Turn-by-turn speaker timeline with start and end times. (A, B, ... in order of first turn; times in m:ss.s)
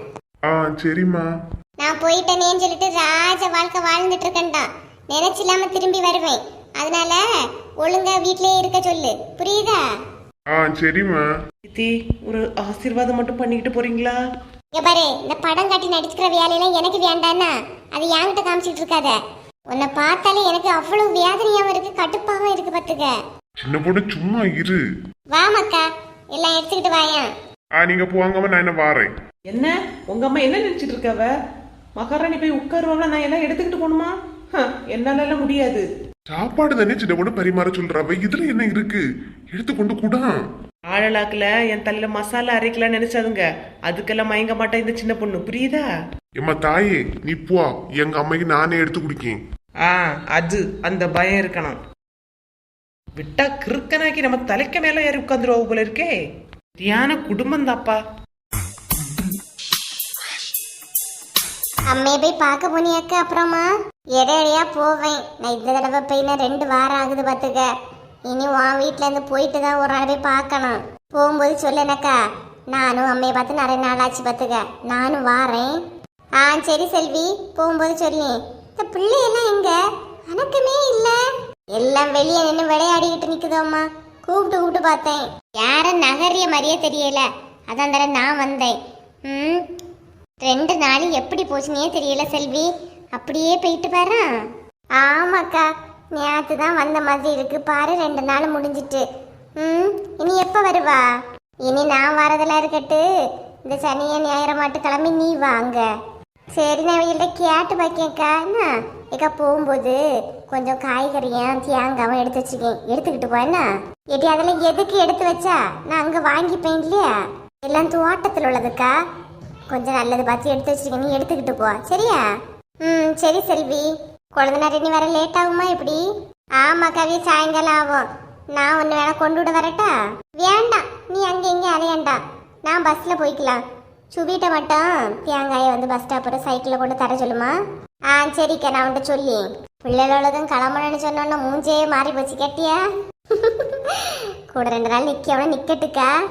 0:00.5-0:01.2 A
0:01.8-0:07.2 B
0:07.8-0:09.8 B
0:10.5-0:11.2 A
0:11.6-0:14.2 C
0:14.7-0:19.2 B
0:19.7-0:23.1 B
0:23.6-0:24.8 A
0:25.3-0:27.3 B
0:27.8-0:29.1 A
0:29.5-0:31.3 C
0:32.0-0:35.8 C
0:36.3-0:40.3 A
0:40.9-0:45.9 C
0:46.4-0:49.4 A
0:49.8-0:51.8 C
0:53.2-0:56.1 C
0:56.8-0:58.0 C
1:01.9-1:07.7 B
1:08.3-1:12.2 B
1:12.7-1:15.8 B
1:16.4-1:19.8 B
1:20.3-1:21.2 B
1:21.7-1:28.8 B
1:29.3-1:29.6 B
1:30.4-1:34.3 B
1:35.0-1:39.0 B
1:39.6-1:41.0 B
1:41.6-1:43.0 B
1:43.6-1:45.9 B
1:46.6-1:58.9 B
1:59.7-2:02.2 B
2:02.8-2:06.0 B
2:06.6-2:17.5 B
2:18.1-2:26.1 B